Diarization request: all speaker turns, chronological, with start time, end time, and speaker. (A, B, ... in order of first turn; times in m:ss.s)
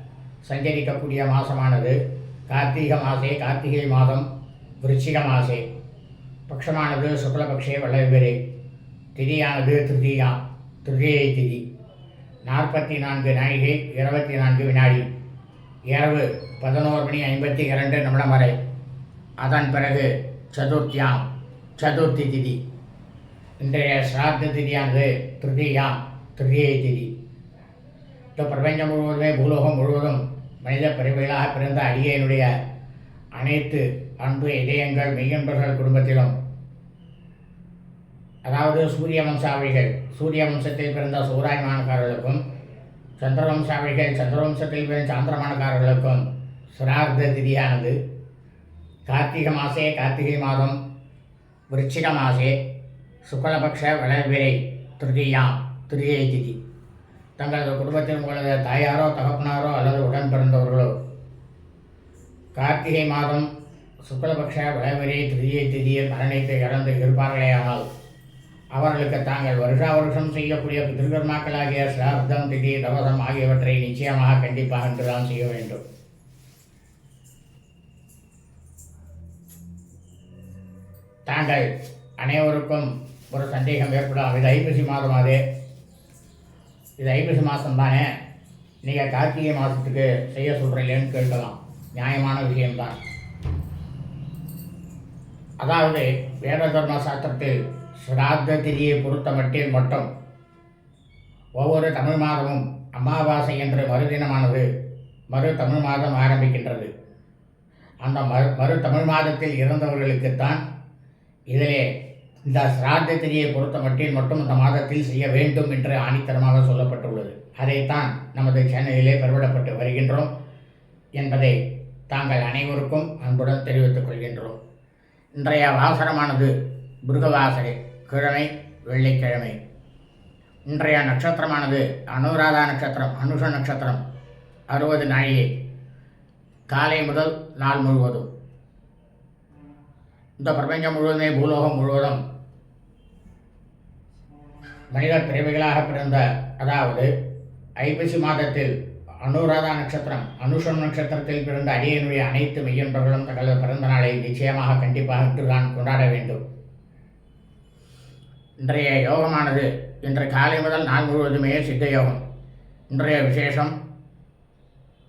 0:00.4-0:04.3 A
0:04.8-0:05.6 A
0:06.5-0:08.4 A
0:09.1-0:11.6 A
0:12.4-0:15.0 A
0:15.9-0:18.5 A
0:19.4-0:21.2 A
0:21.8-0:22.6 A
0:23.6-0:27.1 A
0:28.3-0:32.5 A
0:33.3-0:36.3 A
0:38.5-0:42.4 A
0:43.2-0:48.0 A
0:49.0-0:50.8 A
0:51.7-0:52.6 A
0:53.2-0:56.6 A
0:57.4-1:00.9 A
1:02.5-1:03.5 A
1:04.0-1:07.8 A
1:08.7-1:15.8 A
1:21.2-1:25.4 A
1:27.0-1:28.1 A
1:28.8-1:33.0 A
1:35.6-1:40.1 A
1:41.6-1:44.7 A
1:45.3-1:46.9 A
1:48.0-1:50.6 A
1:51.5-1:51.9 A
1:52.5-2:00.3 A
2:01.2-2:04.6 A
2:05.4-2:06.5 A
2:07.0-2:09.6 A
2:10.7-2:14.0 A
2:14.7-2:15.5 A
2:16.7-2:18.3 A
2:20.4-2:22.2 A
2:24.9-2:27.1 A
2:27.8-2:28.7 A
2:29.2-2:36.4 A
2:38.6-2:42.2 A
2:42.9-2:43.7 A